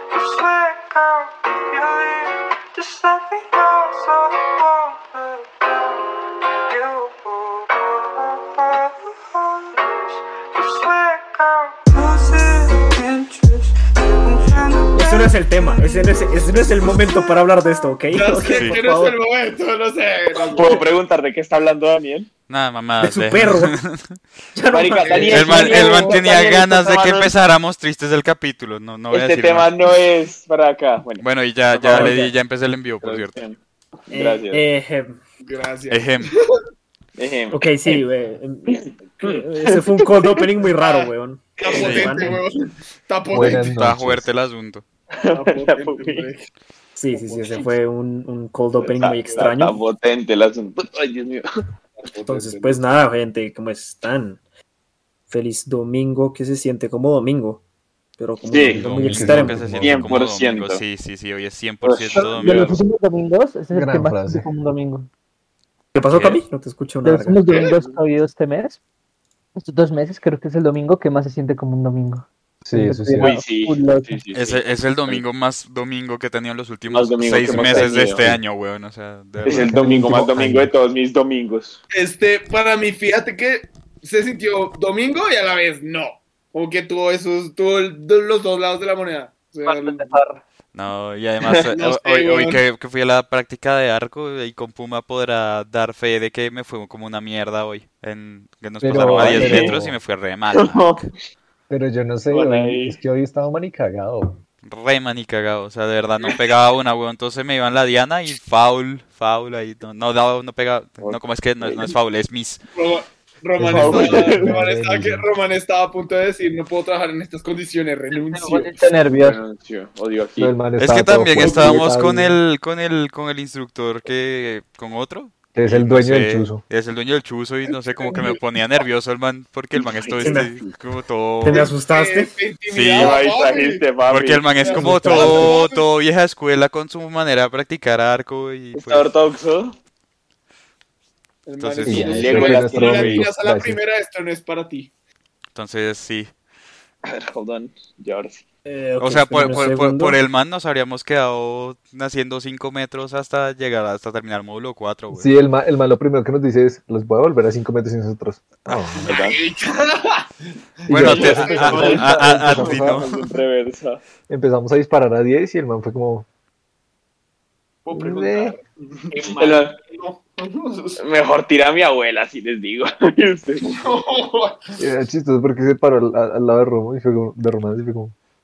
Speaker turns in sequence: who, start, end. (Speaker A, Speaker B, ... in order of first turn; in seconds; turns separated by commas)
Speaker A: 0.2-1.1, Speaker A: 1.8-2.2, Speaker A: 2.8-5.2, Speaker A: 6.7-7.9, Speaker A: 10.6-13.6, Speaker A: 14.3-14.9, Speaker B: 14.4-14.8, Speaker C: 14.9-19.2, Speaker D: 18.1-20.8, Speaker B: 18.5-18.8, Speaker E: 20.5-22.3, Speaker B: 22.5-24.2, Speaker C: 23.0-23.8, Speaker C: 24.6-26.1, Speaker E: 24.7-27.3, Speaker D: 25.0-26.4, Speaker B: 25.3-29.7, Speaker E: 29.1-32.3, Speaker B: 31.2-33.4, Speaker C: 31.9-32.3, Speaker E: 33.0-33.6, Speaker E: 34.1-34.6, Speaker C: 34.1-35.2, Speaker D: 35.4-36.5, Speaker B: 35.9-36.3, Speaker E: 37.2-38.0, Speaker C: 37.5-42.3, Speaker E: 38.7-39.4, Speaker D: 40.8-43.7, Speaker B: 41.7-42.2, Speaker F: 43.3-44.3, Speaker B: 43.4-44.9, Speaker E: 45.2-46.3, Speaker D: 45.3-46.5, Speaker C: 47.0-49.8, Speaker D: 47.1-47.7, Speaker E: 48.8-51.5, Speaker D: 52.0-52.8, Speaker C: 52.3-54.4, Speaker C: 55.3-57.6, Speaker C: 58.2-59.7, Speaker E: 58.5-58.9, Speaker B: 58.8-62.8, Speaker F: 58.8-60.2, Speaker E: 59.8-60.8, Speaker E: 61.8-62.8, Speaker G: 62.1-65.1, Speaker F: 63.7-64.5, Speaker C: 65.9-67.4, Speaker B: 66.1-66.4, Speaker G: 67.0-68.8, Speaker D: 67.5-68.0, Speaker G: 69.6-74.2, Speaker F: 72.7-73.3, Speaker E: 73.2-75.2, Speaker B: 74.3-79.8, Speaker E: 76.9-78.2, Speaker F: 77.5-78.4, Speaker E: 79.4-81.8, Speaker F: 79.5-80.7, Speaker D: 81.9-90.1, Speaker G: 89.7-90.4, Speaker B: 90.7-101.1, Speaker D: 91.7-92.6, Speaker F: 98.8-100.0, Speaker E: 99.0-99.8, Speaker E: 100.5-101.1, Speaker F: 101.7-104.4, Speaker E: 102.3-102.6, Speaker D: 102.6-103.0, Speaker B: 104.7-112.6, Speaker E: 111.0-112.0, Speaker D: 112.8-118.7, Speaker F: 113.6-115.3, Speaker E: 113.6-114.6, Speaker G: 118.1-119.4, Speaker E: 119.2-120.6, Speaker F: 120.4-122.4, Speaker B: 120.8-131.7, Speaker D: 121.4-121.8, Speaker F: 125.5-126.6, Speaker D: 127.7-128.4, Speaker E: 129.8-130.7, Speaker C: 130.2-130.5, Speaker C: 131.4-132.3, Speaker D: 131.5-133.9, Speaker B: 132.7-133.2, Speaker E: 133.0-134.5, Speaker B: 134.0-139.1, Speaker D: 134.6-135.9, Speaker C: 134.7-135.6, Speaker E: 138.7-139.8, Speaker D: 141.5-144.9, Speaker B: 141.6-143.3, Speaker F: 141.8-143.8, Speaker E: 142.0-143.2, Speaker B: 145.6-146.3, Speaker E: 147.1-148.4, Speaker C: 148.7-150.2, Speaker B: 149.0-155.3, Speaker F: 155.1-159.1, Speaker D: 159.0-160.3, Speaker E: 159.0-159.4, Speaker D: 160.8-162.6, Speaker B: 160.9-163.3, Speaker F: 160.9-163.1, Speaker E: 161.1-164.0, Speaker F: 164.3-166.3, Speaker D: 167.8-171.0, Speaker F: 167.9-168.6, Speaker E: 169.1-169.8, Speaker E: 171.0-173.6, Speaker D: 173.6-174.8, Speaker F: 174.8-178.1